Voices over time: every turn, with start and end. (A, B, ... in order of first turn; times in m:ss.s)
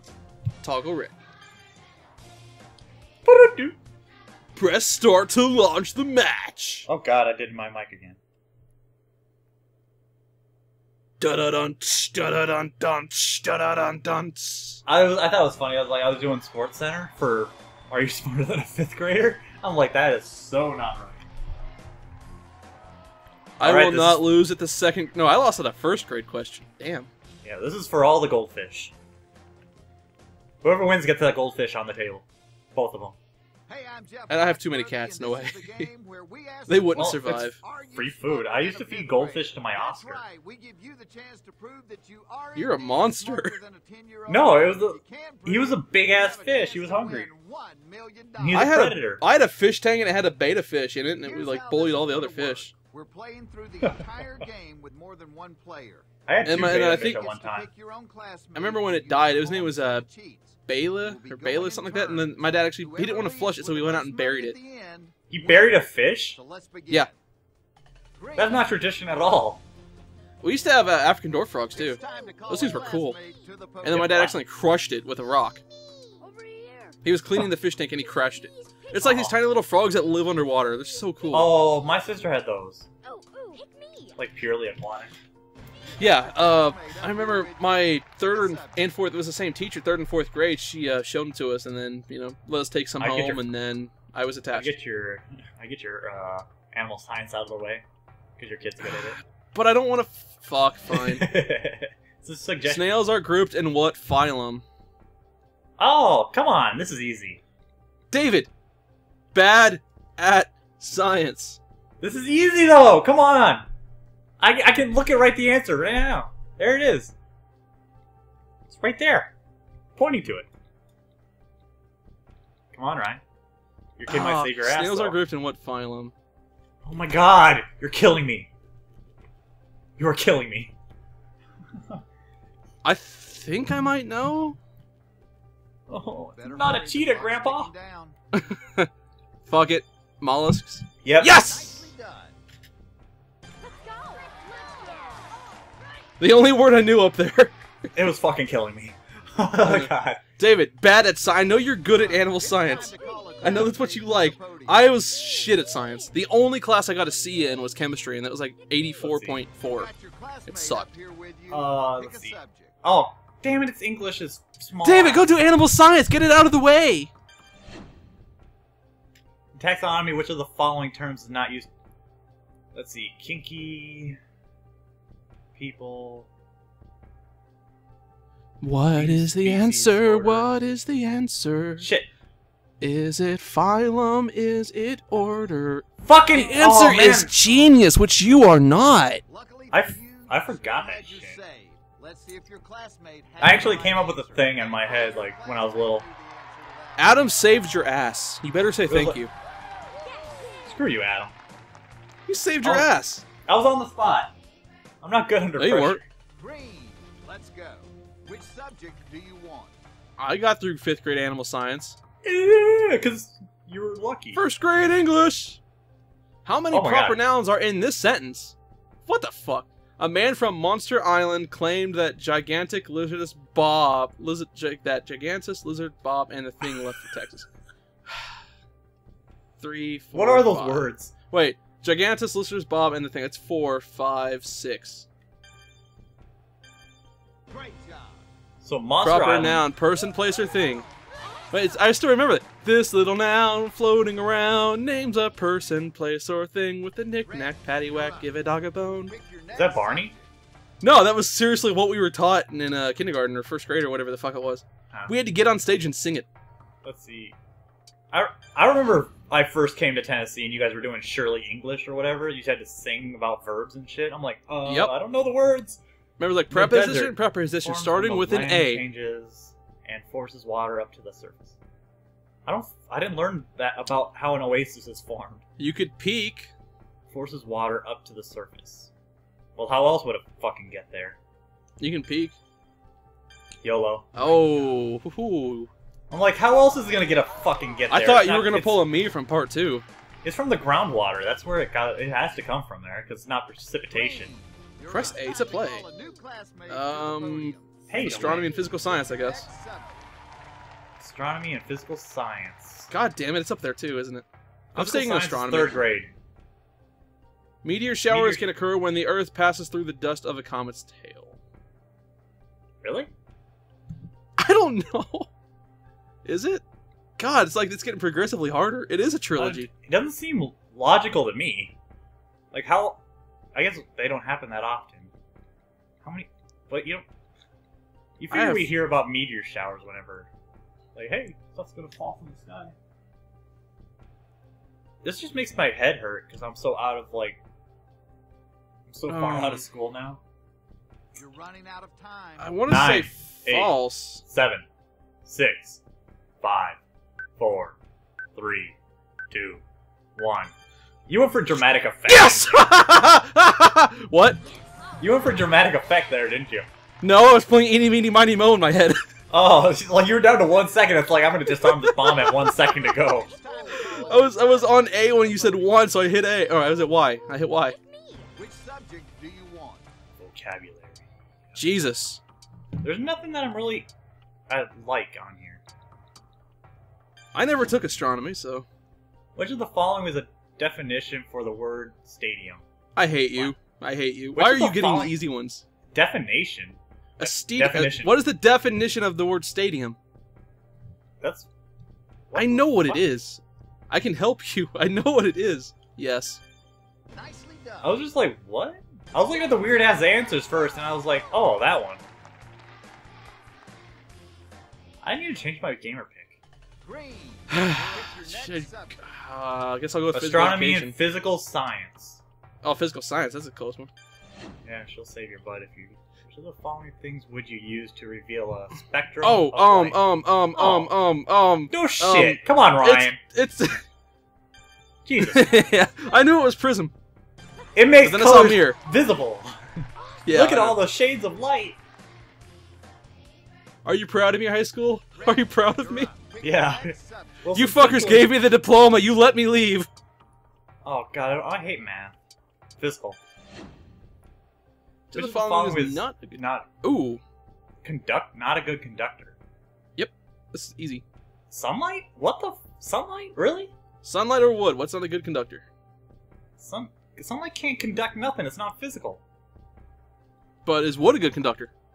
0:00.6-0:01.1 A
0:03.2-0:03.8 B
0:04.5-0:06.9 A
0:06.8-0:08.2 B
0:11.2-0:14.8 A
0:14.8-0:21.3 B
0:23.6-0:27.1 A
0:23.6-0:24.3 B
0:27.4-0:28.9 B
0:30.6-0:33.2 B
0:33.7-0:48.6 C
0:34.3-0:35.9 A
0:36.7-0:37.6 A
0:36.9-0:40.2 B
0:42.5-0:43.6 A
0:44.3-0:47.3 B
0:48.4-0:49.2 B
0:48.5-0:52.7 A
0:51.2-1:05.8 C
0:56.2-0:57.7 B
0:56.4-0:57.2 A
0:58.5-1:00.0 A
1:00.7-1:04.6 A
1:05.3-1:06.4 B
1:06.3-1:07.1 C
1:08.2-1:08.7 C
1:08.4-1:09.6 B
1:10.4-1:13.2 A
1:11.7-1:14.3 C
1:13.8-1:15.6 A
1:13.9-1:14.3 B
1:16.2-1:17.0 D
1:17.0-1:21.5 A
1:19.0-1:19.4 B
1:21.3-1:22.9 B
1:23.0-1:24.1 D
1:24.2-1:25.1 B
1:25.9-1:28.9 C
1:26.0-1:34.7 A
1:33.0-1:33.4 B
1:34.5-1:37.8 B
1:38.4-1:39.2 B
1:38.8-1:41.3 A
1:40.9-1:43.0 B
1:42.6-1:44.6 A
1:45.8-1:47.4 B
1:48.1-1:48.5 A
1:49.3-1:51.6 A
1:52.0-1:53.7 B
1:54.4-1:57.1 B
1:58.7-1:59.3 B
2:00.0-2:00.5 B
2:02.7-2:03.2 B
2:04.0-2:05.2 B
2:04.1-2:06.1 A
2:06.8-2:08.5 B
2:10.0-2:10.7 B
2:12.8-2:14.6 A
2:15.9-2:17.7 B
2:16.3-2:18.2 C
2:18.3-2:18.9 A
2:19.4-2:21.9 A
2:21.0-2:21.4 B
2:21.4-2:22.4 C
2:23.6-2:25.4 D
2:26.2-2:27.6 A
2:27.9-2:30.2 B
2:29.6-2:39.9 A
2:31.9-2:35.0 C
2:39.0-2:39.4 B
2:39.6-2:42.7 C
2:40.5-2:40.9 A
2:41.5-2:45.3 B
2:44.8-2:47.1 A
2:49.6-2:51.7 B
2:52.7-2:54.2 B
2:55.6-2:56.3 B
2:58.6-3:01.9 A
2:58.9-3:00.6 B
3:01.8-3:02.1 B
3:02.8-3:09.2 A
3:06.0-3:07.3 B
3:06.4-3:07.8 C
3:09.3-3:17.5 C
3:09.7-3:11.4 B
3:13.4-3:16.0 B
3:17.0-3:19.3 A
3:18.9-3:19.2 B
3:20.6-3:21.3 B
3:22.2-3:23.2 A
3:22.6-3:22.9 B
3:23.4-3:24.3 B
3:25.0-3:26.0 B
3:25.6-3:26.0 A
3:26.4-3:29.8 C
3:30.2-3:32.0 A
3:32.2-3:34.4 B
3:34.3-3:35.6 A
3:36.4-3:47.5 A
3:36.7-3:37.2 B
3:48.1-3:48.4 A
3:49.6-3:55.1 A
3:50.1-3:51.1 B
3:57.5-3:58.2 C
3:58.6-3:59.6 B
3:59.0-4:00.9 A
4:01.5-4:09.1 A
4:07.2-4:08.3 C
4:09.0-4:10.3 C
4:09.5-4:10.1 B
4:10.8-4:16.3 A
4:16.8-4:17.4 B
4:18.1-4:25.8 B
4:24.6-4:25.0 A
4:26.2-4:28.8 A
4:26.5-4:31.6 B
4:32.4-4:35.4 B
4:35.6-4:36.5 A
4:37.1-4:38.9 B
4:39.6-4:41.2 B
4:41.8-4:42.4 A
4:43.6-4:44.6 B
4:44.2-4:45.7 A
4:46.1-4:48.8 B
4:47.9-4:49.8 A
4:50.2-4:54.3 B
4:53.9-5:00.1 C
4:54.9-4:55.8 A
4:56.7-4:59.5 A
4:57.9-4:58.5 B
5:01.0-5:02.9 B
5:02.9-5:05.8 A
5:04.7-5:06.1 B
5:07.6-5:11.4 A
5:08.1-5:08.5 B
5:12.8-5:13.1 B
5:14.4-5:15.3 A
5:16.2-5:16.6 A
5:17.2-5:19.7 A
5:19.4-5:21.8 B
5:22.5-5:23.0 B
5:23.5-5:25.1 B
5:26.0-5:27.0 B
5:28.2-5:30.3 B
5:28.3-5:28.8 A
5:30.9-5:32.8 B
5:35.0-5:37.4 B
5:38.9-5:40.2 B
5:39.1-5:39.6 A
5:41.1-5:42.6 C
5:42.4-5:44.2 A
5:42.7-5:44.6 B
5:45.2-5:45.8 B
5:46.4-5:46.8 B
5:47.4-5:47.8 B
5:48.3-5:48.8 B
5:49.3-5:49.6 B
5:50.2-5:50.5 B
5:51.1-5:52.6 B
5:52.1-5:54.4 A
5:55.0-5:56.7 B
5:57.0-5:59.0 A
5:59.3-6:03.3 B
6:01.6-6:02.5 A
6:03.0-6:06.0 C
6:03.7-6:07.8 A
6:03.8-6:04.3 D
6:07.7-6:08.3 D
6:08.3-6:09.8 C
6:10.2-6:11.6 B
6:11.6-6:12.2 A
6:12.8-6:13.9 B
6:14.5-6:15.6 B
6:17.3-6:18.7 A
6:19.3-6:22.6 B
6:23.0-6:25.6 A
6:24.3-6:25.2 B
6:25.9-6:28.2 B
6:27.2-6:30.0 A
6:31.2-6:31.5 B
6:32.3-6:33.1 B
6:32.4-6:36.4 A
6:37.1-6:38.0 C
6:37.8-6:42.0 B
6:45.0-6:46.4 B
6:46.8-6:49.0 C
6:47.5-6:51.0 A
6:50.1-6:52.2 B
6:52.6-6:53.9 A
6:54.6-7:00.0 B
6:59.2-7:03.8 A
7:00.5-7:00.9 B
7:01.7-7:03.2 B
7:05.0-7:05.6 B
7:05.2-7:06.9 A
7:07.7-7:11.8 B
7:08.0-7:08.8 A
7:10.2-7:10.8 A
7:13.8-7:16.1 A
7:15.1-7:17.4 C
7:16.4-7:18.3 B
7:17.5-7:19.9 A
7:20.8-7:22.1 B
7:22.8-7:23.2 B
7:25.1-7:27.2 A
7:25.1-7:26.7 B
7:27.8-7:29.4 B
7:30.0-7:31.0 A
7:31.5-7:33.7 B
7:34.0-7:35.6 A
7:36.6-7:39.2 B
7:40.6-7:41.7 A